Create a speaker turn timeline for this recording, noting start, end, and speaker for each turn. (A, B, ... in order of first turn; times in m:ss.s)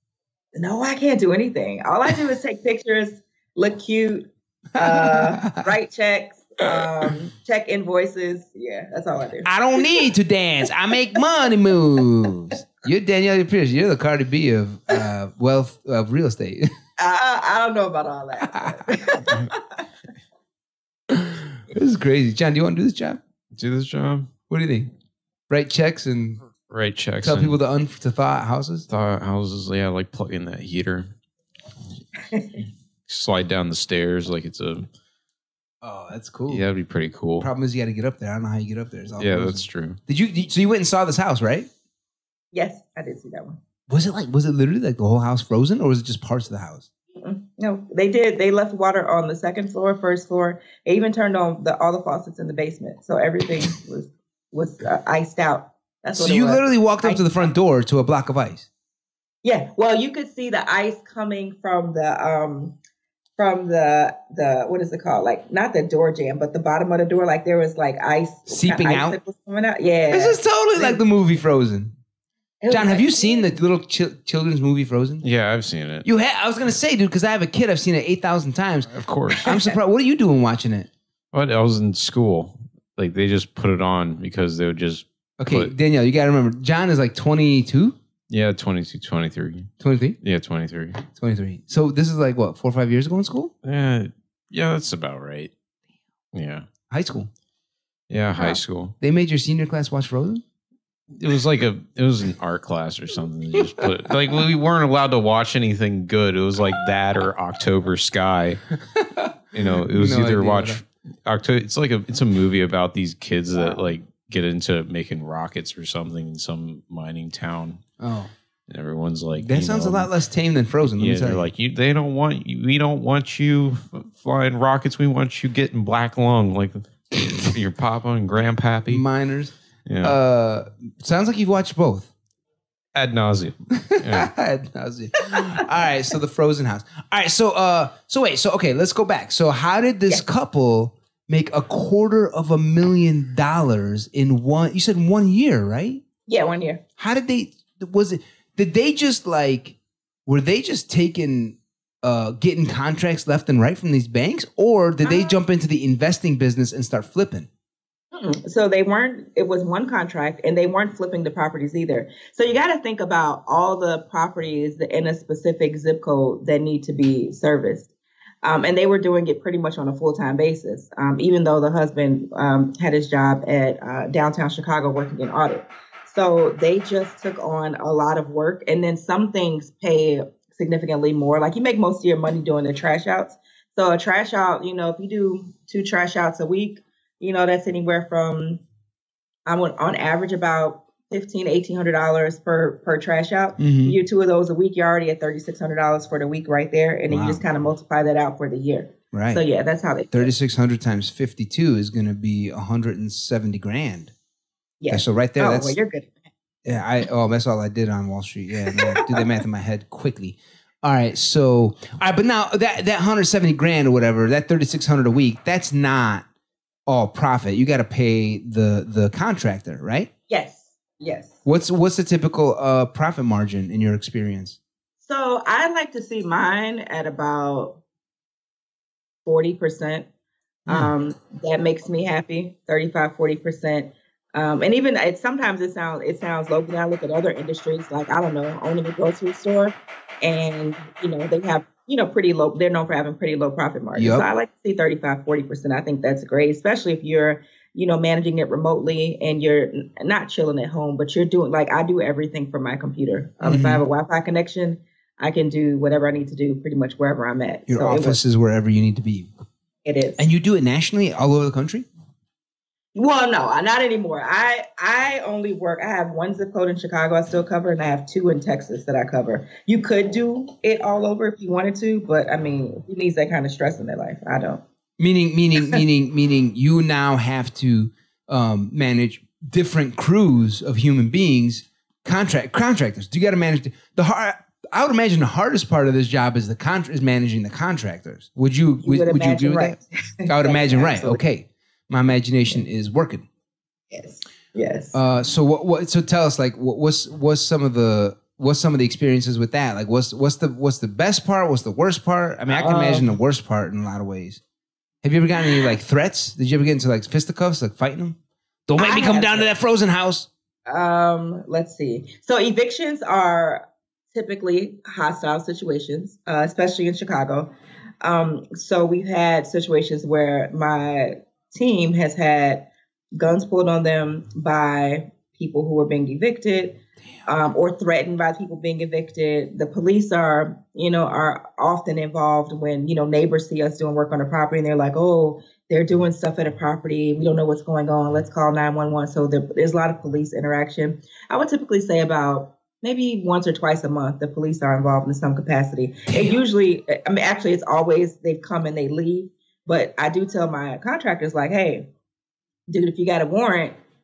0:00.5-0:10.1 A
0:04.8-0:05.7 B
0:09.4-0:16.7 B
0:17.0-0:19.8 A
0:18.4-0:19.3 B
0:21.1-0:23.2 B
0:23.5-0:24.3 C
0:24.5-0:24.9 B
0:25.5-0:26.4 B
0:26.7-0:27.6 C
0:27.2-0:28.9 B
0:28.9-0:31.1 C
0:32.2-0:32.6 A
0:33.1-0:34.9 C
0:35.8-0:36.6 B
0:36.5-0:37.5 C
0:37.4-0:41.7 B
0:39.2-0:40.0 C
0:42.5-0:43.6 A
0:43.9-0:46.9 B
0:47.2-0:57.3 A
0:56.1-0:58.7 B
0:59.4-1:02.8 A
1:03.4-1:11.0 A
1:08.5-1:09.2 B
1:10.1-1:11.9 B
1:12.6-1:13.5 A
1:12.7-1:15.2 B
1:15.2-1:16.0 C
1:16.0-1:20.9 B
1:18.9-1:19.5 C
1:19.4-1:19.7 A
1:21.3-1:25.7 C
1:25.4-1:28.0 B
1:28.3-1:31.0 C
1:29.8-1:30.2 B
1:31.1-1:33.5 B
1:33.6-1:35.5 C
1:36.3-1:36.6 C
1:36.9-1:37.3 B
1:38.1-1:38.9 C
1:39.0-1:40.4 B
1:41.1-1:48.6 C
1:48.9-1:50.8 B
1:49.5-1:57.8 C
1:58.0-1:58.3 B
1:58.7-2:00.1 C
1:59.4-2:01.5 B
2:00.8-2:09.0 C
2:08.9-2:12.1 B
2:09.8-2:10.2 C
2:12.9-2:14.3 C
2:13.7-2:26.0 B
2:15.3-2:15.9 A
2:26.3-2:26.8 A
2:27.0-2:37.5 B
2:35.0-2:35.3 A
2:38.1-2:47.9 A
2:48.4-3:08.6 A
3:09.4-3:20.3 A
3:13.6-3:14.0 B
3:17.1-3:17.4 B
3:19.1-3:19.4 B
3:20.1-3:24.1 B
3:24.8-3:26.8 A
3:24.9-3:25.8 B
3:26.6-3:36.2 B
3:28.6-3:29.3 A
3:36.9-3:40.1 B
3:40.3-3:41.4 A
3:41.4-3:44.6 B
3:45.0-3:47.8 A
3:49.2-3:50.1 A
3:50.7-4:18.2 A
4:03.9-4:04.3 B
4:13.4-4:13.8 B
4:17.7-4:19.3 B
4:19.8-4:20.2 A
4:20.2-4:21.9 B
4:22.9-4:34.6 A
4:35.0-4:53.2 B
4:48.8-4:51.2 A
4:53.9-4:55.0 A
4:54.9-5:04.4 B
5:02.5-5:03.2 A
5:05.0-5:10.3 B
5:05.4-5:05.7 A
5:08.8-5:09.5 A
5:10.6-5:51.9 A
5:46.1-5:46.4 B
5:52.7-5:53.8 A